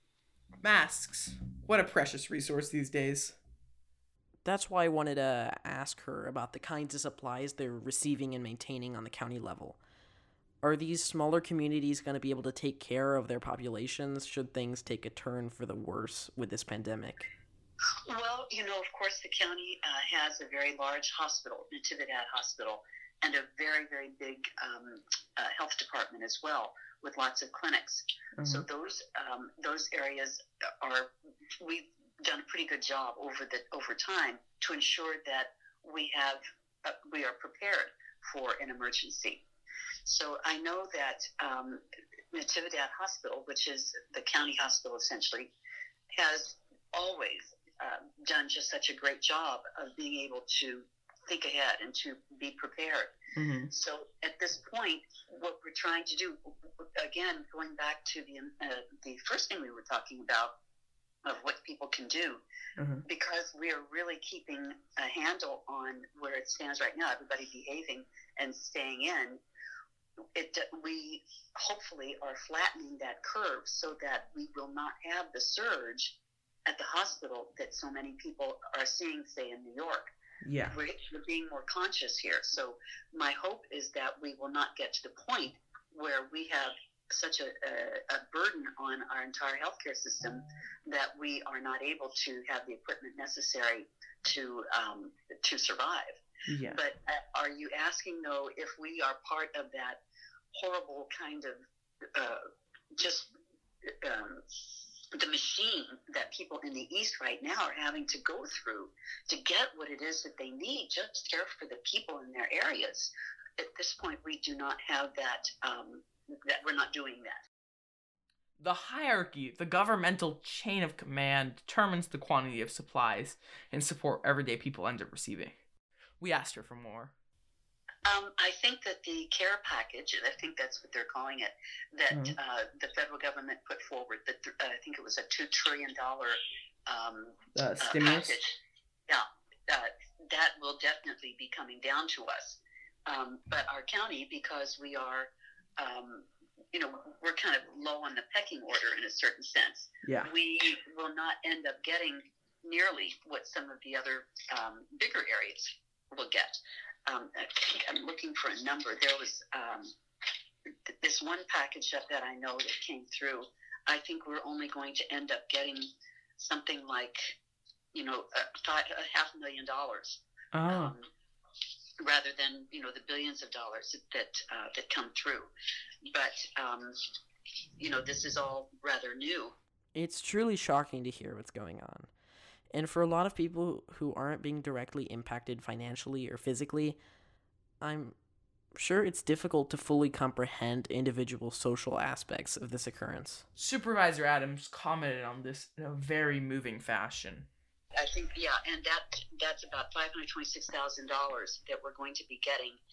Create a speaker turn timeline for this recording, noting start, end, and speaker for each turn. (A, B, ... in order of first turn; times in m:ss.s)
0:00.6-0:03.4 A
0:04.4-0:09.8 B
0:10.6-0:17.3 B
0:17.9-0:31.1 C
0:28.4-0:28.6 A
0:31.6-0:39.4 C
0:40.0-0:45.5 C
0:46.1-0:53.1 C
0:53.4-0:53.7 A
0:53.7-1:00.5 C
1:01.2-1:02.4 C
1:02.8-1:03.0 A
1:03.0-1:09.4 C
1:10.3-1:16.1 C
1:16.6-1:20.1 C
1:20.4-1:20.7 A
1:20.7-1:40.0 C
1:36.5-1:36.8 A
1:40.5-1:41.6 C
1:42.1-1:42.4 C
1:43.0-1:43.3 C
1:43.8-1:57.4 C
1:58.6-2:05.6 A
2:06.2-2:07.1 A
2:08.0-2:18.5 C
2:12.1-2:12.4 A
2:17.5-2:18.4 A
2:19.1-2:39.9 C
2:30.0-2:30.3 A
2:40.9-2:47.4 C
2:47.9-2:51.0 C
2:50.5-2:50.9 A
2:52.0-2:55.5 C
2:56.0-2:57.0 C
2:57.8-2:59.5 C
2:59.9-3:02.1 B
3:02.7-3:07.0 B
3:07.8-3:08.2 B
3:08.7-3:13.4 B
3:13.6-3:17.5 A
3:17.9-3:22.8 C